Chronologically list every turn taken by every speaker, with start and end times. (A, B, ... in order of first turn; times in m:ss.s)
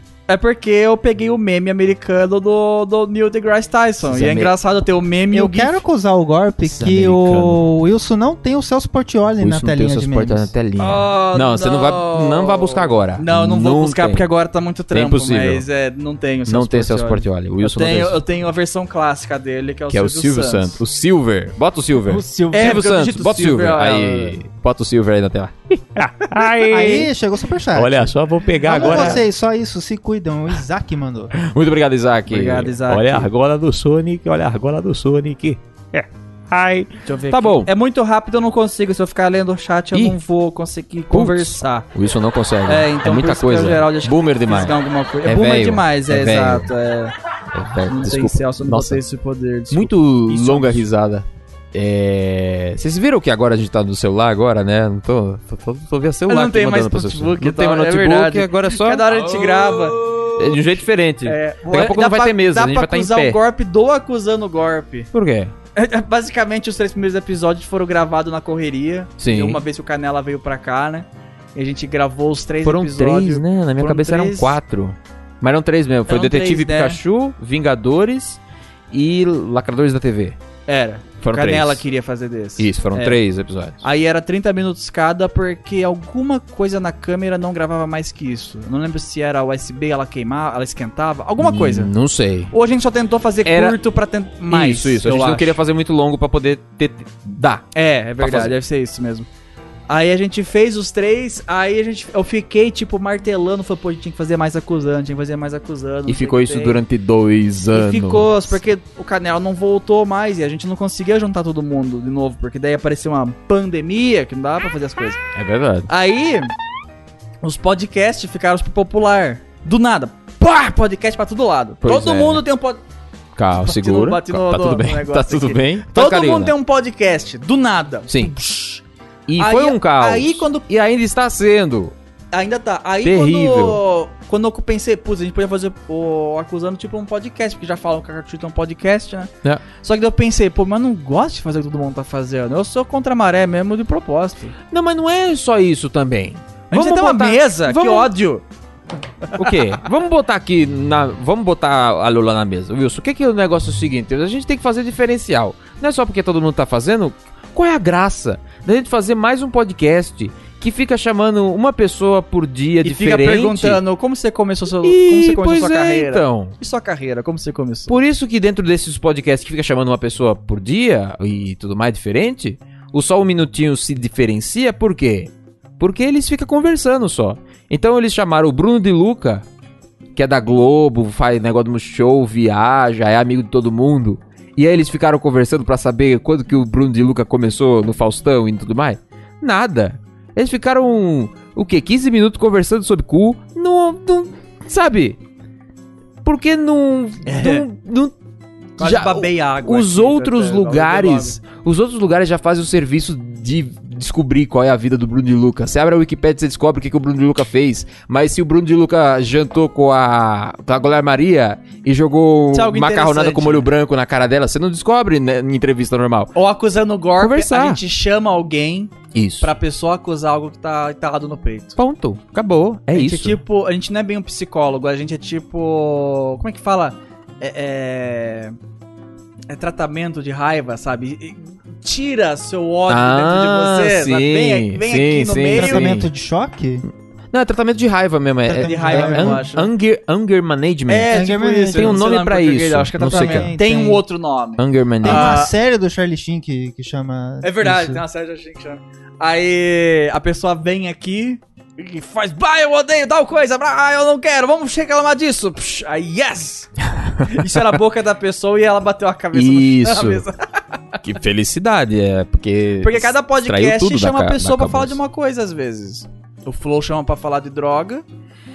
0:00.3-0:05.8 A
0:04.0-0:04.5 B
0:05.3-0:10.5 C
0:06.6-0:07.6 B
0:09.4-0:14.2 B
0:10.8-0:20.8 A
0:14.9-0:15.6 B
0:16.5-0:18.2 B
0:19.9-0:27.1 B
0:22.0-0:22.8 C
0:22.5-0:24.4 A
0:26.6-0:31.3 C
0:27.7-0:29.2 B
0:28.6-0:29.2 A
0:31.4-0:37.7 B
0:32.3-0:33.3 A
0:37.0-0:41.9 A
0:39.9-0:40.2 B
0:41.1-0:46.7 B
0:42.6-0:47.1 A
0:47.5-0:49.0 B
0:47.9-0:50.9 A
0:49.7-1:03.4 B
0:56.3-1:05.1 A
1:05.1-1:05.5 B
1:05.7-1:14.6 A
1:09.2-1:09.6 B
1:12.6-1:18.4 B
1:16.1-1:17.0 A
1:18.9-1:20.4 B
1:20.7-1:23.2 A
1:21.2-1:21.8 B
1:22.6-1:23.8 B
1:23.8-1:31.9 A
1:31.4-1:32.5 B
1:32.5-1:35.6 A
1:33.4-1:33.8 B
1:34.5-1:37.7 B
1:37.7-1:39.3 A
1:38.2-1:38.5 B
1:39.9-1:46.8 A
1:46.1-1:48.6 B
1:47.7-1:55.2 A
1:55.3-1:55.9 B
1:55.9-1:56.5 A
1:57.4-2:02.8 A
2:01.8-2:02.4 B
2:03.4-2:06.5 B
2:03.6-2:08.8 A
2:09.3-2:11.9 B
2:09.4-2:10.6 A
2:12.3-2:24.5 A
2:13.0-2:13.8 B
2:24.7-2:28.1 B
2:26.7-2:28.4 A
2:29.3-2:29.6 A
2:29.3-2:43.8 B
2:42.8-2:47.9 A
2:44.8-2:46.5 B
2:47.9-2:59.4 B
3:00.2-3:15.2 B
3:16.2-3:18.1 B
3:17.2-3:17.6 A
3:18.8-3:36.3 B
3:18.8-3:21.4 A
3:32.5-3:33.7 A
3:36.3-3:41.8 A
3:37.2-3:37.8 B
3:39.1-3:39.5 B
3:41.8-3:43.4 B
3:42.9-3:48.5 A
3:49.5-3:56.0 A
3:52.9-3:56.1 B
3:55.5-3:56.8 C
3:57.3-4:03.5 B
3:58.5-3:59.4 C
3:58.5-3:59.7 A
4:00.9-4:05.5 A
4:01.1-4:02.0 C
4:03.0-4:04.0 C
4:04.6-4:05.4 B
4:05.0-4:08.0 C
4:07.4-4:20.4 A
4:17.0-4:17.6 B
4:19.3-4:20.2 B
4:21.0-4:25.0 B
4:22.8-4:28.0 A